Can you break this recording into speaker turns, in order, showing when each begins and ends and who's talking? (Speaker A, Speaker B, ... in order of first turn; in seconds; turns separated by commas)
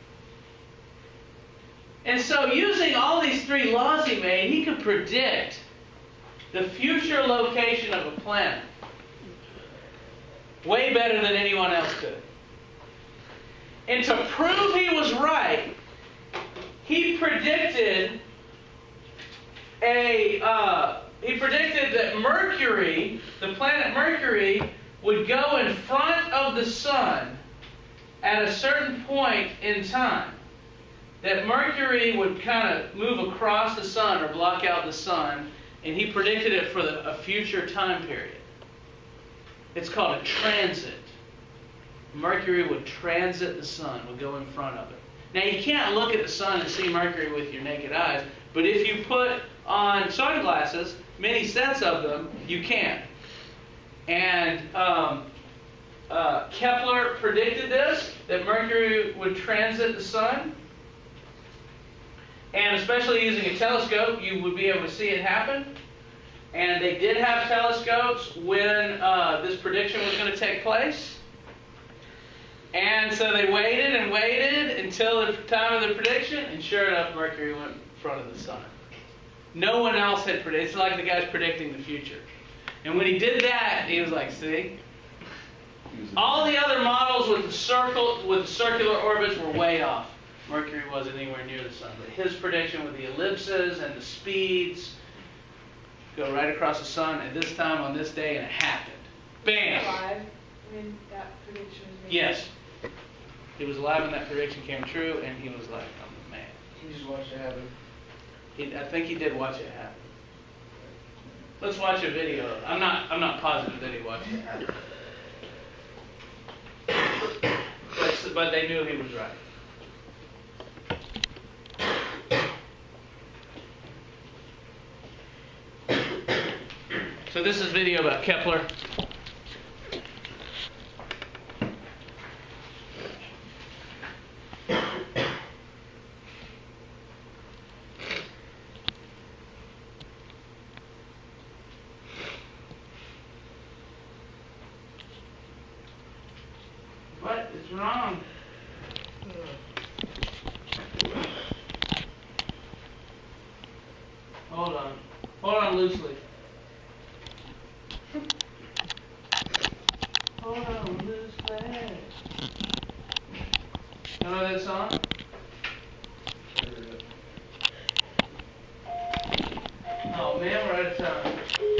Speaker A: 2.0-5.6, Speaker A: 6.5-8.7, Speaker A: 10.6-12.2, Speaker A: 13.9-15.7, Speaker A: 16.8-18.2, Speaker A: 19.8-27.4, Speaker A: 28.2-30.4, Speaker A: 31.2-38.4, Speaker A: 39.7-41.1, Speaker A: 42.1-53.1, Speaker A: 54.1-55.3, Speaker A: 56.1-60.5, Speaker A: 62.5-65.7, Speaker A: 66.5-71.2, Speaker A: 72.7-78.7, Speaker A: 79.5-82.2, Speaker A: 82.8-84.8, Speaker B: 85.9-86.5, Speaker A: 86.1-94.9, Speaker A: 96.1-100.0, Speaker C: 99.5-102.5, Speaker A: 102.1-102.5, Speaker A: 103.6-106.7, Speaker B: 106.8-107.7, Speaker A: 108.5-110.0, Speaker A: 111.6-114.5, Speaker A: 117.9-119.4, Speaker A: 127.3-128.7, Speaker A: 147.1-148.2, Speaker A: 154.5-156.2, Speaker A: 160.4-162.1, Speaker A: 164.2-165.0, Speaker B: 166.5-167.0, Speaker A: 170.1-171.4